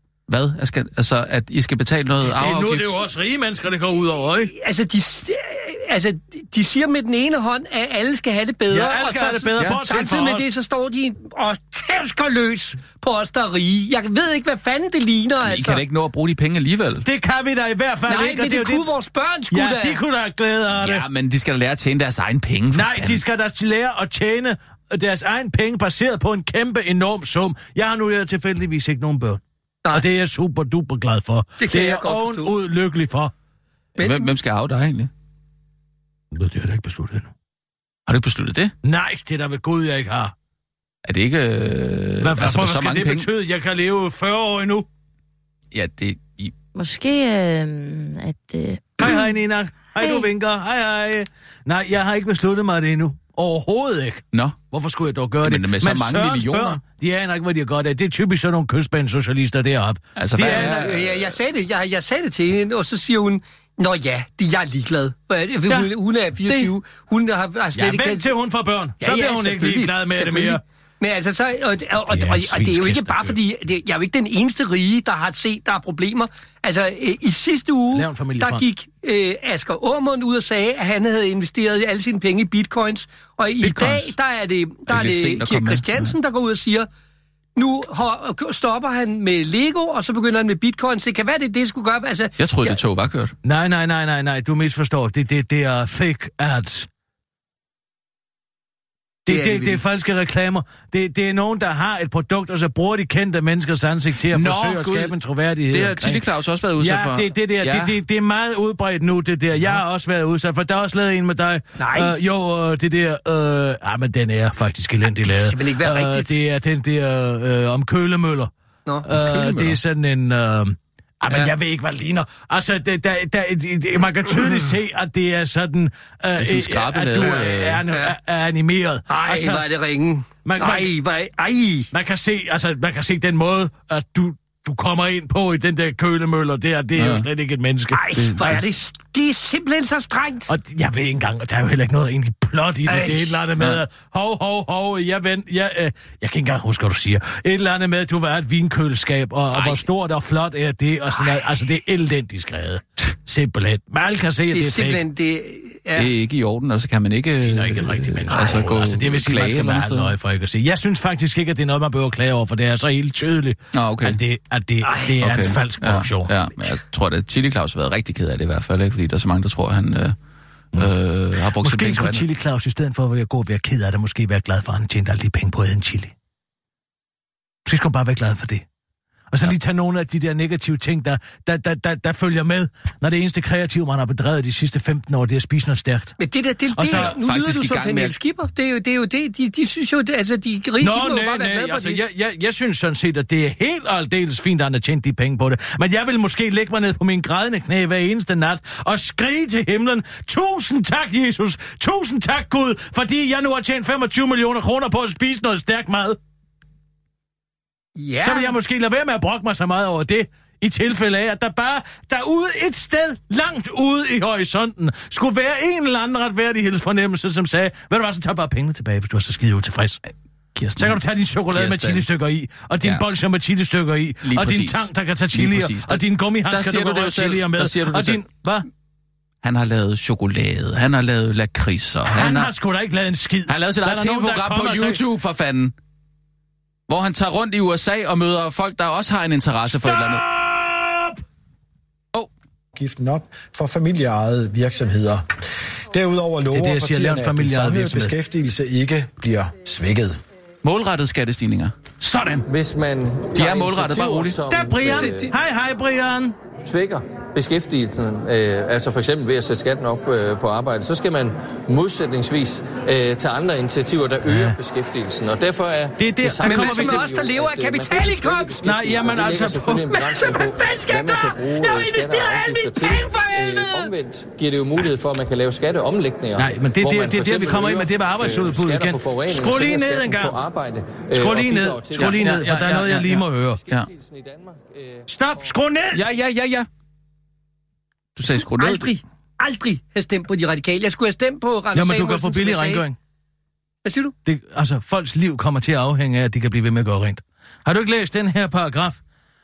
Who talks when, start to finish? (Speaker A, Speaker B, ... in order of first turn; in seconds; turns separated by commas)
Speaker A: 0.3-3.0, Speaker B: 2.2-4.5, Speaker C: 4.5-15.8, Speaker B: 8.7-10.4, Speaker A: 15.4-17.1, Speaker B: 17.0-18.9, Speaker C: 18.1-20.0, Speaker B: 19.5-21.1, Speaker A: 20.7-23.2, Speaker B: 22.7-33.3, Speaker C: 31.6-32.5, Speaker A: 34.0-35.1, Speaker C: 34.0-34.3, Speaker B: 36.3-37.3, Speaker A: 38.1-38.7, Speaker B: 38.8-40.3, Speaker A: 41.0-43.3, Speaker B: 42.2-44.9, Speaker A: 45.7-46.5, Speaker D: 46.7-49.3, Speaker B: 49.0-60.9, Speaker D: 49.9-50.3, Speaker A: 54.3-54.6, Speaker A: 55.4-56.8, Speaker A: 60.1-61.4, Speaker C: 60.3-68.3, Speaker A: 65.7-66.7, Speaker B: 67.7-70.6, Speaker C: 69.0-86.9, Speaker B: 72.1-73.4, Speaker B: 77.9-78.7, Speaker A: 83.6-84.2, Speaker A: 84.9-86.1, Speaker C: 87.5-92.8, Speaker A: 92.4-93.3, Speaker B: 93.4-96.9, Speaker B: 99.2-106.2, Speaker A: 99.3-99.8, Speaker A: 104.3-105.2, Speaker A: 105.7-108.0, Speaker B: 106.8-118.5, Speaker C: 111.8-112.2, Speaker C: 115.0-116.4, Speaker C: 118.8-119.7, Speaker B: 119.0-129.6, Speaker A: 119.4-119.7, Speaker C: 124.3-124.6, Speaker A: 126.3-127.8, Speaker C: 127.2-128.1, Speaker C: 129.1-131.9, Speaker B: 130.4-130.9, Speaker B: 131.9-138.6, Speaker A: 136.9-137.3, Speaker C: 137.9-140.5, Speaker A: 138.1-138.6, Speaker B: 140.5-155.0, Speaker C: 142.8-143.5, Speaker A: 149.5-149.8, Speaker C: 154.5-156.1, Speaker A: 155.9-160.1, Speaker B: 157.4-166.3, Speaker C: 158.3-158.6, Speaker A: 163.7-164.2, Speaker C: 164.8-165.1, Speaker A: 165.2-170.2, Speaker A: 170.7-172.2, Speaker B: 171.5-176.1, Speaker B: 177.7-178.6, Speaker B: 179.3-186.1, Speaker C: 186.2-192.0, Speaker B: 186.7-187.2, Speaker A: 186.8-188.2, Speaker B: 190.8-206.2, Speaker C: 207.9-208.5, Speaker B: 208.2-220.0, Speaker A: 220.5-221.0, Speaker B: 220.8-228.7, Speaker A: 221.5-222.1, Speaker A: 224.2-228.2, Speaker A: 229.4-232.5, Speaker B: 232.1-235.0, Speaker A: 233.5-235.7, Speaker A: 236.9-240.2, Speaker B: 239.7-241.2, Speaker E: 242.7-245.2, Speaker E: 245.9-250.1, Speaker B: 246.5-248.1, Speaker A: 250.6-252.4, Speaker F: 252.4-255.3, Speaker A: 253.3-254.4, Speaker B: 254.5-256.4, Speaker C: 254.9-255.3, Speaker F: 256.6-285.5, Speaker B: 264.2-264.6, Speaker B: 266.0-267.1, Speaker C: 266.4-268.8, Speaker B: 268.6-269.9, Speaker C: 269.7-273.9, Speaker B: 276.4-280.4, Speaker B: 281.1-283.6, Speaker A: 281.9-283.9, Speaker B: 285.1-286.0, Speaker A: 285.9-286.7, Speaker A: 288.1-289.0, Speaker C: 288.4-292.8, Speaker B: 291.7-292.9, Speaker C: 293.8-294.1, Speaker B: 294.2-299.0